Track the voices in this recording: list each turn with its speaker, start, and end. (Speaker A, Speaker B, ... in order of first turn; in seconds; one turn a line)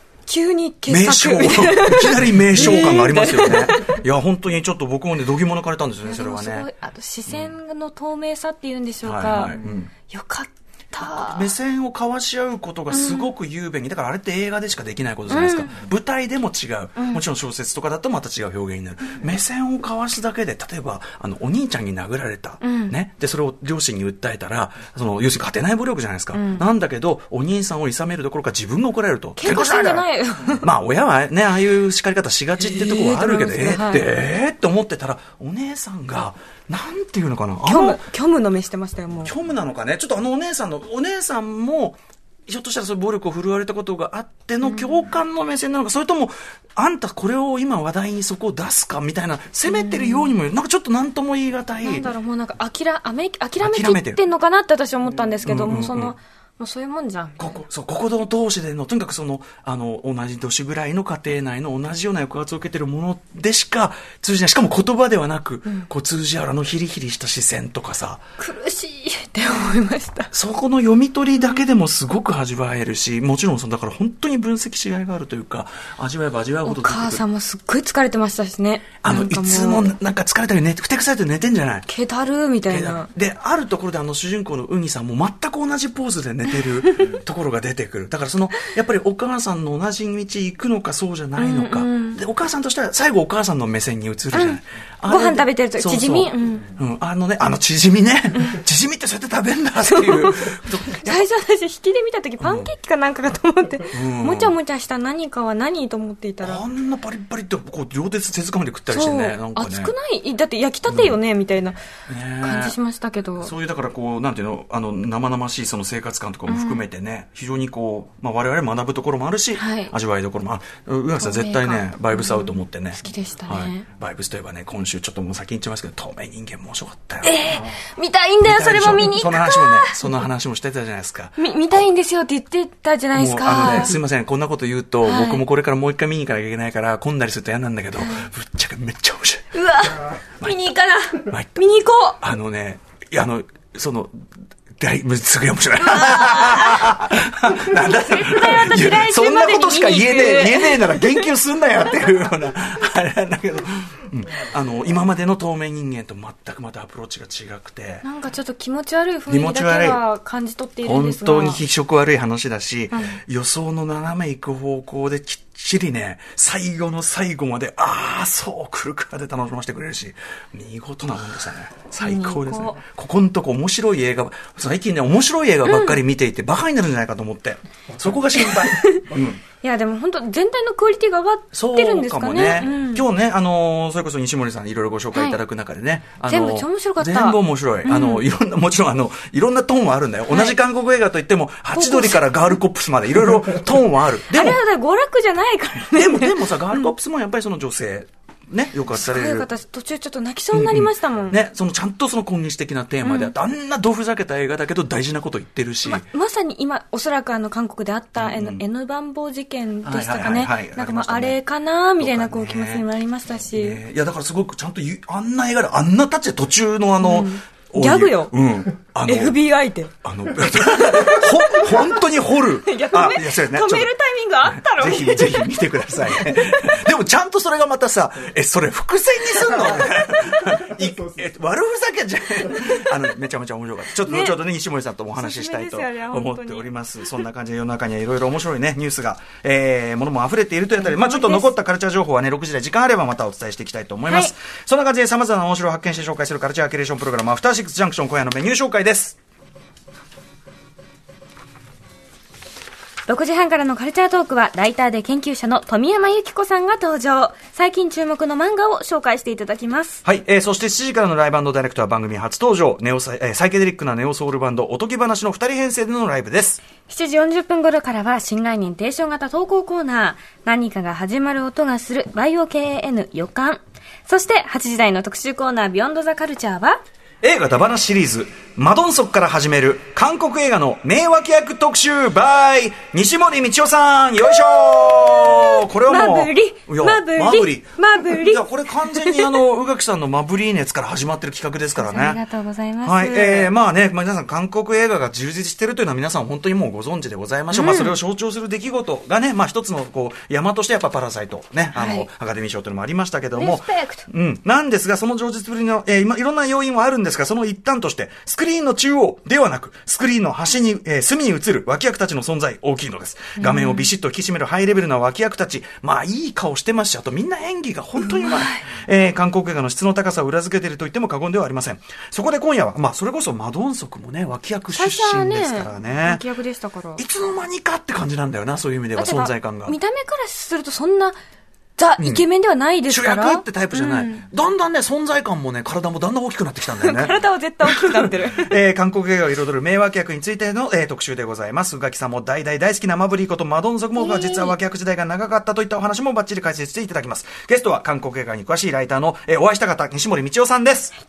Speaker A: 0.2-4.0
Speaker B: 0.9-6.7
Speaker A: 6.0-9.6
Speaker B: 7.3-7.5
Speaker B: 9.0-9.9
Speaker A: 10.1-11.5
Speaker B: 11.0-30.1
Speaker A: 12.9-13.3
Speaker A: 15.3-15.7
Speaker A: 17.0-17.2
Speaker A: 22.6-22.9
Speaker A: 26.3-26.6
Speaker A: 29.4-30.7
Speaker B: 30.6-38.0
Speaker A: 32.6-34.1
Speaker A: 37.6-39.3
Speaker B: 39.2-52.1
Speaker A: 44.6-45.0
Speaker A: 49.7-50.3
Speaker A: 51.8-57.4
Speaker B: 53.6-54.2
Speaker B: 55.4-56.1
Speaker B: 57.4-68.2
Speaker A: 68.4-70.3
Speaker B: 70.3-77.2
Speaker A: 76.6-79.9
Speaker B: 79.0-81.8
Speaker A: 81.9-83.1
Speaker B: 82.7-101.3
Speaker A: 86.8-87.1
Speaker A: 91.4-92.2
Speaker A: 94.3-96.7
Speaker A: 99.8-106.6
Speaker B: 102.4-102.7
Speaker B: 103.9-104.6
Speaker B: 106.4-109.9
Speaker A: 108.9-111.8
Speaker B: 110.9-111.2
Speaker B: 112.1-112.8
Speaker A: 112.4-113.5
Speaker B: 113.4-127.8
Speaker A: 116.5-116.8
Speaker A: 119.5-119.9
Speaker A: 121.2-123.8
Speaker A: 127.2-130.0
Speaker B: 128.4-131.8
Speaker A: 131.4-133.9
Speaker B: 133.1-139.6
Speaker A: 135.0-135.4
Speaker A: 138.0-138.3
Speaker A: 139.5-142.2
Speaker B: 141.2-144.2
Speaker B: 144.8-158.1
Speaker A: 145.8-146.9
Speaker A: 147.7-151.3
Speaker A: 158.0-161.6
Speaker B: 159.3-160.0
Speaker B: 160.8-179.4
Speaker A: 162.9-163.2
Speaker A: 172.0-172.8
Speaker A: 175.6-176.0
Speaker A: 178.3-179.1
Speaker A: 179.6-183.0
Speaker B: 181.5-194.6
Speaker A: 185.1-185.4
Speaker A: 186.2-188.2
Speaker A: 190.3-190.6
Speaker A: 191.7-192.5
Speaker A: 194.3-196.9
Speaker B: 195.9-199.5
Speaker A: 198.9-201.4
Speaker B: 200.5-206.0
Speaker A: 203.0-203.3
Speaker A: 205.8-213.8
Speaker B: 208.2-208.6
Speaker B: 209.8-211.4
Speaker B: 212.0-212.8
Speaker B: 213.5-219.4
Speaker A: 217.0-218.3
Speaker A: 219.0-219.9
Speaker B: 220.0-249.2
Speaker A: 220.8-222.0
Speaker A: 222.6-226.8
Speaker A: 234.0-234.4
Speaker A: 235.1-236.7
Speaker A: 240.8-241.5
Speaker A: 244.1-244.3
Speaker A: 253.1-260.0
Speaker B: 260.0-266.6
Speaker A: 266.8-276.8
Speaker B: 277.2-292.2
Speaker A: 284.4-289.4
Speaker A: 291.7-293.5
Speaker B: 292.8-326.2
Speaker A: 297.5-297.9
Speaker A: 301.7-302.1
Speaker A: 303.4-304.0
Speaker A: 313.4-313.9
Speaker A: 318.0-318.6
Speaker A: 324.7-327.0
Speaker B: 327.0-329.8
Speaker A: 328.9-331.2
Speaker A: 331.8-334.2
Speaker B: 332.0-332.2
Speaker B: 332.9-350.9
Speaker A: 336.7-338.5
Speaker A: 343.9-344.5